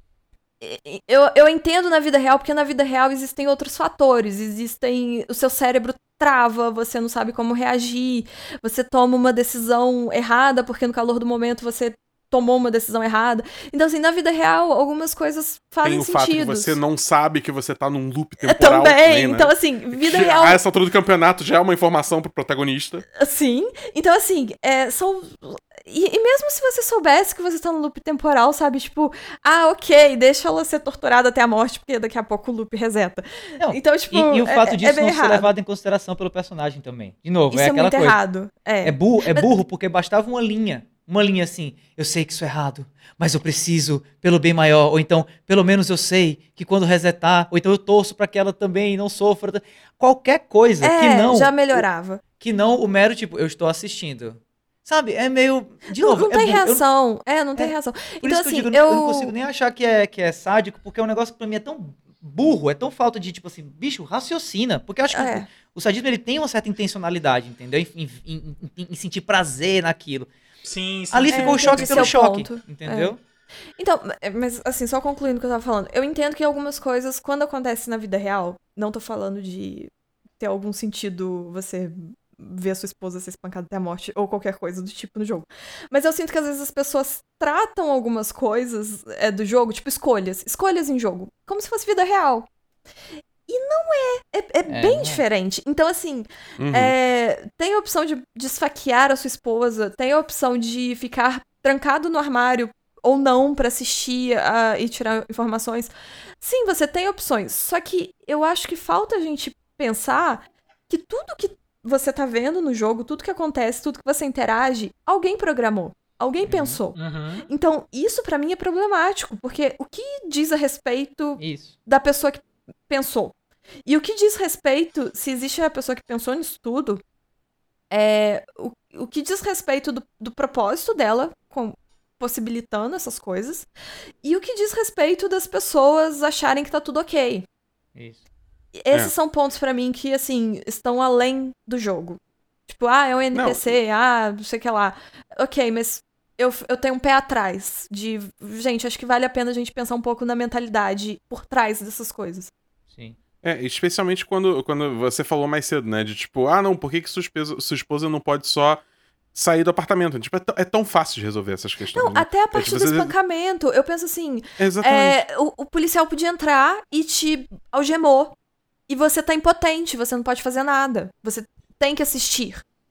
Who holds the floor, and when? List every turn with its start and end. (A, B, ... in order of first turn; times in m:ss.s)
0:00.6-0:16.8 A
0:15.8-0:23.1 B
0:18.4-0:20.6 A
0:23.2-0:35.5 A
0:33.6-0:38.2 C
0:37.5-0:39.4 A
0:38.8-0:51.8 C
0:50.8-0:52.2 A
0:52.4-0:56.8 C
0:55.9-0:59.3 A
0:57.6-1:10.3 C
1:05.1-1:05.5 A
1:10.6-1:12.1 D
1:11.1-1:13.2 C
1:11.2-1:13.1 A
1:13.8-1:32.5 A
1:33.5-2:03.3 A
1:34.7-1:35.2 C
1:36.6-1:36.9 B
1:56.4-1:56.8 C
1:57.0-1:57.5 D
2:01.4-2:01.7 C
2:03.9-2:07.0 A
2:07.9-2:13.7 A
2:14.2-2:17.4 A
2:18.0-2:18.2 C
2:18.8-2:32.5 A
2:23.3-2:23.7 B
2:32.9-2:33.2 C
2:33.4-2:38.8 B
2:39.3-2:43.1 B
2:41.9-2:48.3 A
2:44.6-2:45.2 B
2:48.9-2:52.6 A